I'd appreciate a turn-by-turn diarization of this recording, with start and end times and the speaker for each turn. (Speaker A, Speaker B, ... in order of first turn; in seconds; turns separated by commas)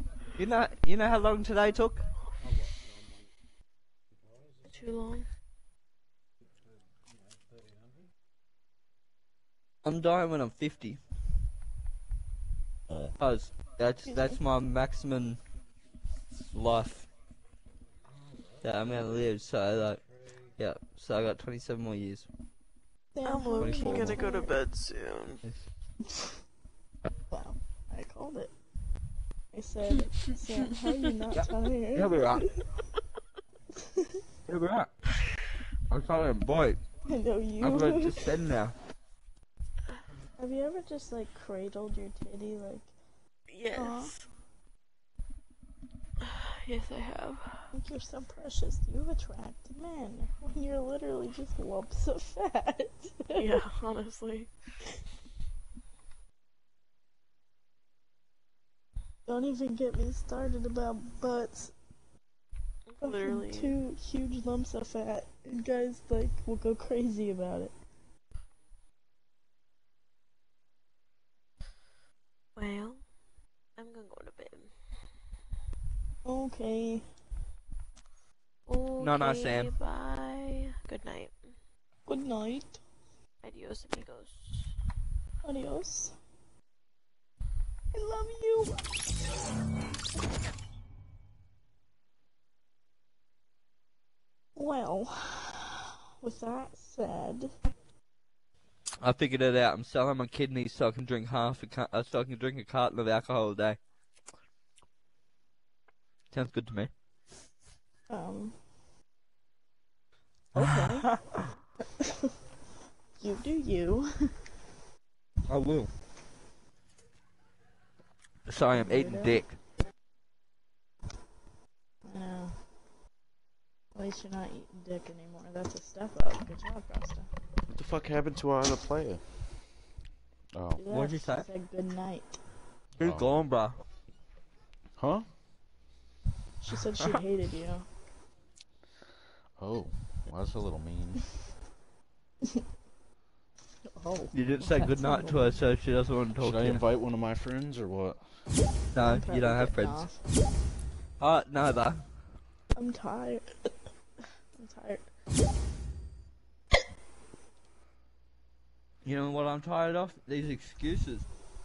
Speaker A: 0.3-2.1, Speaker B: 4.7-5.3, Speaker A: 9.8-11.0, Speaker A: 13.0-15.4, Speaker C: 14.1-14.4, Speaker A: 16.5-17.1, Speaker A: 18.6-20.0, Speaker A: 20.6-22.3, Speaker C: 23.1-24.5, Speaker B: 23.2-25.4, Speaker A: 23.6-24.2, Speaker C: 27.3-28.5, Speaker C: 29.5-32.6, Speaker A: 31.3-32.5, Speaker C: 33.8-34.2, Speaker A: 34.5-34.9, Speaker A: 35.9-36.8, Speaker C: 37.1-38.3, Speaker A: 37.6-38.8, Speaker C: 40.4-42.9, Speaker B: 43.5-44.3, Speaker C: 43.7-44.1, Speaker B: 46.2-47.7, Speaker C: 47.7-53.6, Speaker B: 53.4-54.5, Speaker C: 59.3-61.7, Speaker B: 62.9-63.8, Speaker C: 63.0-67.7, Speaker B: 72.6-73.0, Speaker B: 73.8-74.7, Speaker C: 76.2-77.1, Speaker B: 78.7-81.5, Speaker A: 79.0-79.7, Speaker C: 82.1-82.8, Speaker B: 83.4-84.7, Speaker C: 85.4-86.2, Speaker C: 87.9-88.8, Speaker C: 94.6-97.5, Speaker A: 99.0-103.8, Speaker A: 106.3-106.9, Speaker C: 108.1-108.6, Speaker C: 110.5-111.4, Speaker A: 110.6-111.3, Speaker C: 113.2-114.4, Speaker A: 115.5-115.9, Speaker A: 118.5-119.6, Speaker C: 118.7-119.4, Speaker C: 122.0-122.6, Speaker C: 124.0-127.3, Speaker D: 127.7-129.2, Speaker D: 130.5-130.8, Speaker C: 130.8-132.4, Speaker A: 130.9-131.5, Speaker A: 133.0-133.8, Speaker D: 133.0-133.3, Speaker D: 135.0-135.3, Speaker C: 136.6-137.9, Speaker D: 139.6-141.2, Speaker C: 143.9-145.6, Speaker A: 144.3-146.8, Speaker D: 146.4-148.2, Speaker A: 148.9-150.1, Speaker C: 149.0-150.2, Speaker A: 151.2-152.1, Speaker C: 152.8-153.7, Speaker C: 154.6-155.1, Speaker A: 159.1-161.2